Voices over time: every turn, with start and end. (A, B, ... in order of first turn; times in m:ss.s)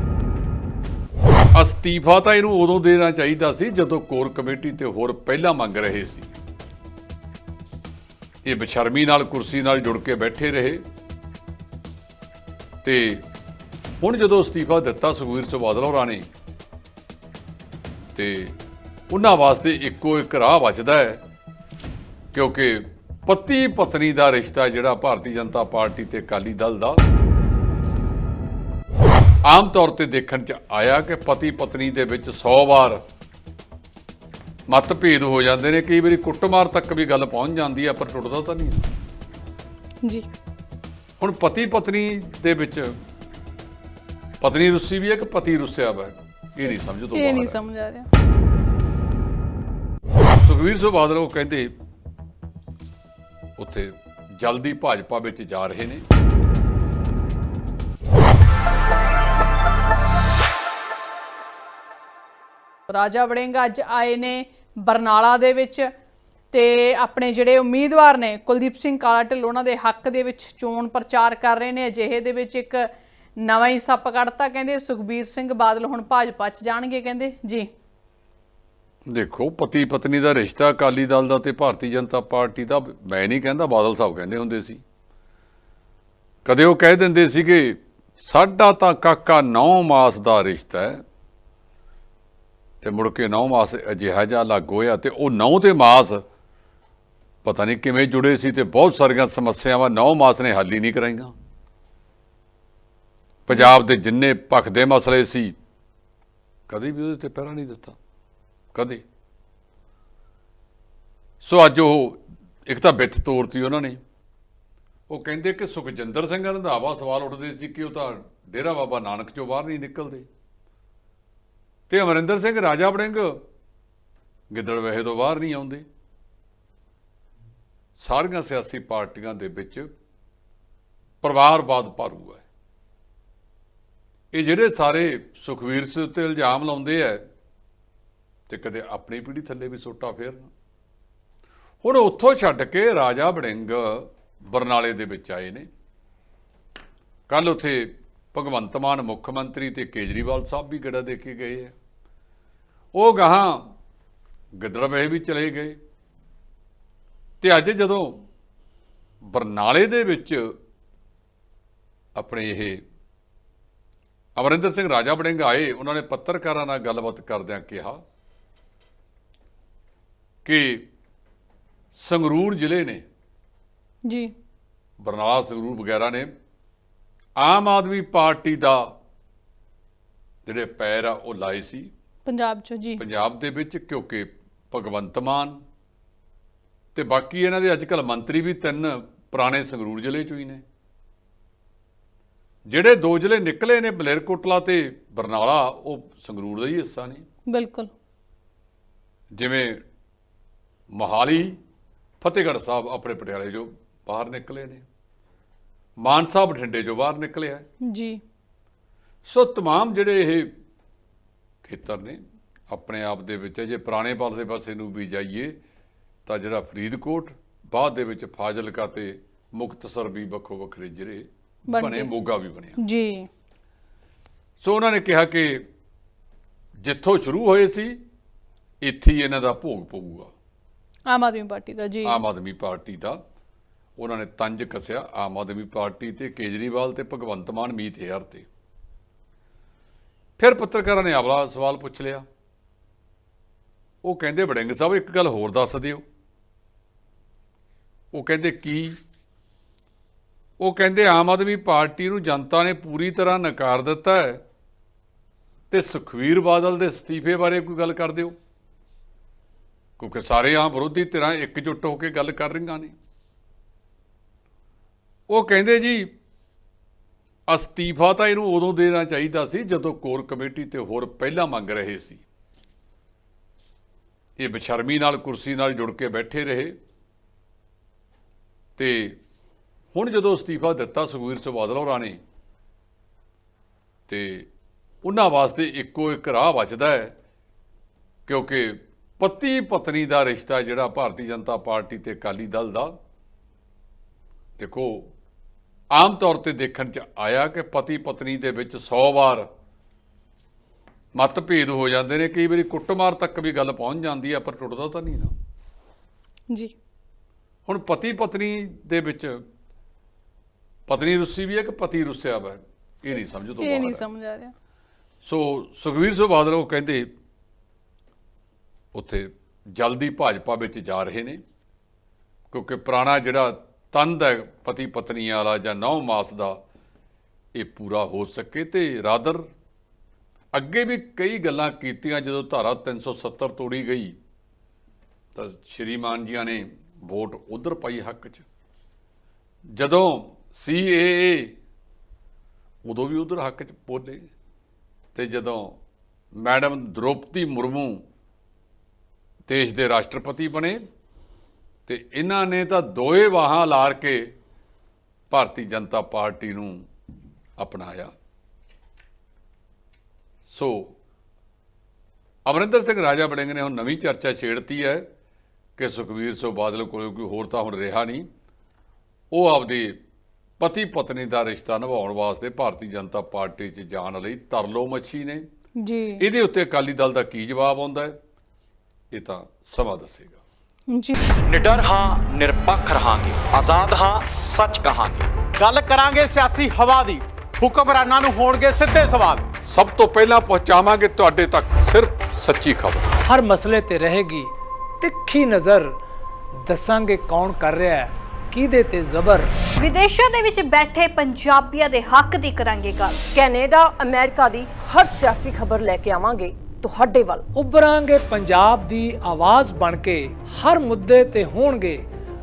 0:01.6-0:06.3 A
0:08.4-0:10.8 A
0:12.8-0:13.2 A
0:14.0-0:16.3 A
0:18.1-0:18.6 A
0:19.1-0:21.2 A
0:22.3-0:27.0 A
0:29.5-0:33.0 A
0:34.7-0:38.9 A
0:41.2-0:43.0 A
0:44.4-0:47.6 A
0:47.2-0:48.1 B
0:50.4-0:51.7 A
0:53.6-0:56.0 A
1:02.9-1:05.9 B
1:06.5-1:17.7 B
1:19.1-1:24.8 A
1:26.4-1:31.0 A
1:32.8-1:36.2 A
1:37.4-1:41.3 A
1:43.5-1:45.5 A
1:46.7-1:48.0 A
1:48.7-1:49.0 A
1:51.4-1:54.0 A
1:55.1-2:00.3 A
2:01.9-2:03.4 A
2:04.5-2:05.9 A
2:08.0-2:09.9 A
2:11.2-2:12.4 A
2:14.3-2:17.2 A
2:18.5-2:20.5 A
2:21.8-2:25.7 A
2:27.3-2:31.7 A
2:32.9-2:33.7 A
2:34.6-2:35.8 A
2:37.4-2:38.2 A
2:39.3-2:40.5 A
2:42.2-2:42.8 A
2:44.4-2:48.0 A
2:50.4-2:50.9 A
2:52.0-2:53.0 A
2:54.1-2:54.3 B
2:55.0-2:56.3 A
2:57.4-2:58.9 A
3:00.5-3:01.9 A
3:02.2-3:03.0 B
3:03.0-3:05.6 A
3:07.0-3:10.6 A
3:12.7-3:17.2 A
3:17.5-3:17.9 B
3:19.4-3:19.8 A
3:20.9-3:21.6 A
3:22.2-3:24.8 A
3:26.0-3:27.6 A
3:27.9-3:28.2 B
3:29.3-3:30.5 A
3:31.6-3:32.2 A
3:32.7-3:35.6 A
3:36.3-3:42.8 A
3:41.7-3:42.1 B
3:42.8-3:43.3 B
3:44.6-3:45.6 A
3:46.8-3:48.0 A
3:48.8-3:50.3 A
3:51.1-3:52.2 B
3:52.0-3:53.2 A
3:54.0-3:58.5 A
4:00.4-4:02.2 A
4:04.0-4:06.0 A
4:08.1-4:09.0 A
4:10.6-4:14.4 A
4:15.7-4:18.4 A
4:20.0-4:23.0 A
4:25.3-4:26.1 A
4:27.5-4:32.2 A
4:34.4-4:36.8 A
4:38.8-4:39.2 A
4:39.9-4:42.2 A
4:44.1-4:44.5 A
4:45.0-4:47.2 A
4:48.3-4:53.0 A
4:54.6-4:55.1 A
4:55.9-4:59.5 A
5:01.2-5:05.3 A
5:07.7-5:09.4 A
5:10.9-5:14.0 A
5:13.6-5:14.5 B
5:15.2-5:17.1 A
5:18.9-5:21.4 A
5:22.5-5:26.6 A
5:27.6-5:29.4 A
5:30.5-5:34.2 A
5:35.4-5:38.4 A
5:39.8-5:41.6 A
5:42.8-5:44.3 A
5:45.2-5:45.8 A
5:46.4-5:48.0 A
5:49.5-5:50.8 A
5:51.9-5:54.3 A
5:55.3-5:56.8 A
5:57.6-5:58.1 A
6:00.5-6:00.9 A
6:02.5-6:05.1 A
6:05.8-6:08.3 A
6:09.3-6:10.0 A
6:10.6-6:15.4 A
6:15.8-6:16.2 B
6:16.2-6:18.2 A
6:19.1-6:20.4 A
6:20.9-6:21.2 B
6:21.5-6:25.3 C
6:25.6-6:29.4 D
6:29.7-6:33.1 A
6:33.2-6:35.9 E
6:36.6-6:39.5 E
6:39.8-6:43.4 F
6:43.3-6:47.4 G
6:47.5-6:52.0 E